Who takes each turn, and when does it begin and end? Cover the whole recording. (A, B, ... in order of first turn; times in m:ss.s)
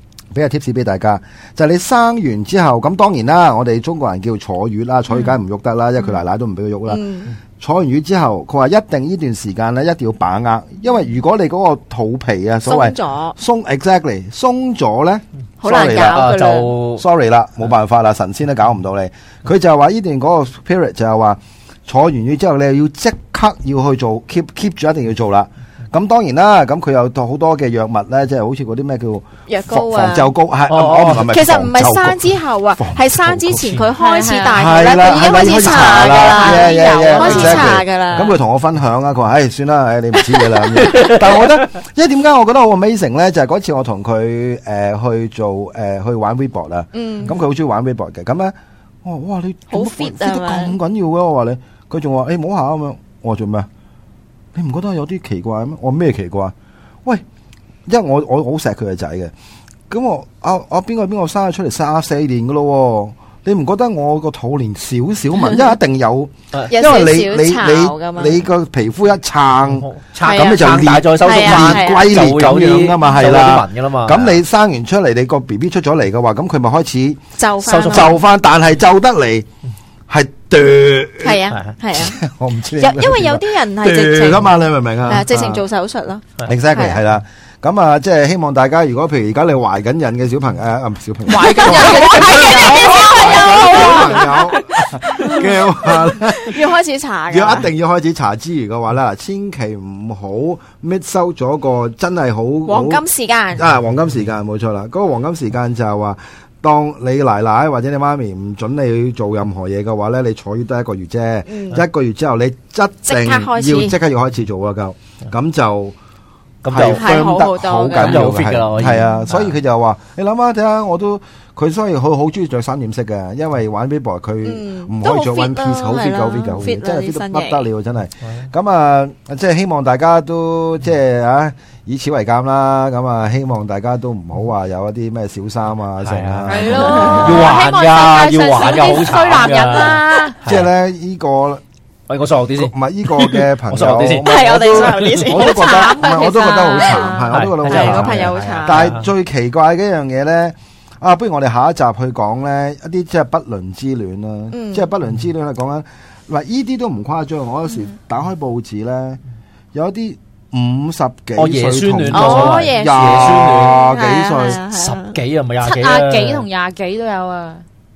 0:00.3-0:07.1 A
0:06.9-0:07.3 B
0:07.6-0:16.3 A
0:12.6-0:13.4 B
0:15.6-0:16.7 B
0:15.8-0:17.0 C
0:17.0-0:33.8 A
0:29.5-0:30.3 B
0:30.7-0:31.3 C
0:31.2-0:38.4 B
0:33.5-0:33.8 C
0:33.9-0:34.9 D
0:34.5-0:53.7 A
0:37.1-0:37.8 C
0:40.8-0:41.2 C
0:46.9-0:47.4 B
0:49.7-0:50.8 B
0:54.5-0:56.5 A
0:57.9-0:59.3 A
0:59.9-1:19.5 A
1:06.7-1:08.4 B
1:09.6-1:14.4 C
1:10.2-1:12.2 B
1:17.4-1:18.2 B
1:20.1-1:25.6 A
1:21.2-1:22.2 B
1:21.5-1:21.8 C
1:22.7-1:27.0 B
1:26.4-1:36.8 A
1:31.3-1:34.3 D
1:31.3-1:37.7 B
1:37.3-1:43.0 A
1:42.6-1:43.6 B
1:43.5-1:56.0 A
1:51.5-1:51.8 B
1:53.0-1:54.0 B
1:56.6-1:59.5 C
1:56.7-2:17.6 A
1:56.7-1:58.5 B
2:04.4-2:07.6 B
2:16.0-2:20.7 C
2:16.5-2:20.4 D
2:16.6-2:17.6 B
2:18.6-2:19.0 B
2:20.4-2:21.6 A
2:22.1-2:25.4 C
2:22.5-2:39.2 A
2:24.2-2:28.9 B
2:25.6-2:27.3 D
2:27.3-2:29.1 C
2:34.5-2:34.9 B
2:39.7-2:44.6 A
2:41.4-2:43.9 C
2:42.1-2:45.2 B
2:44.7-2:46.4 C
2:45.6-2:47.6 D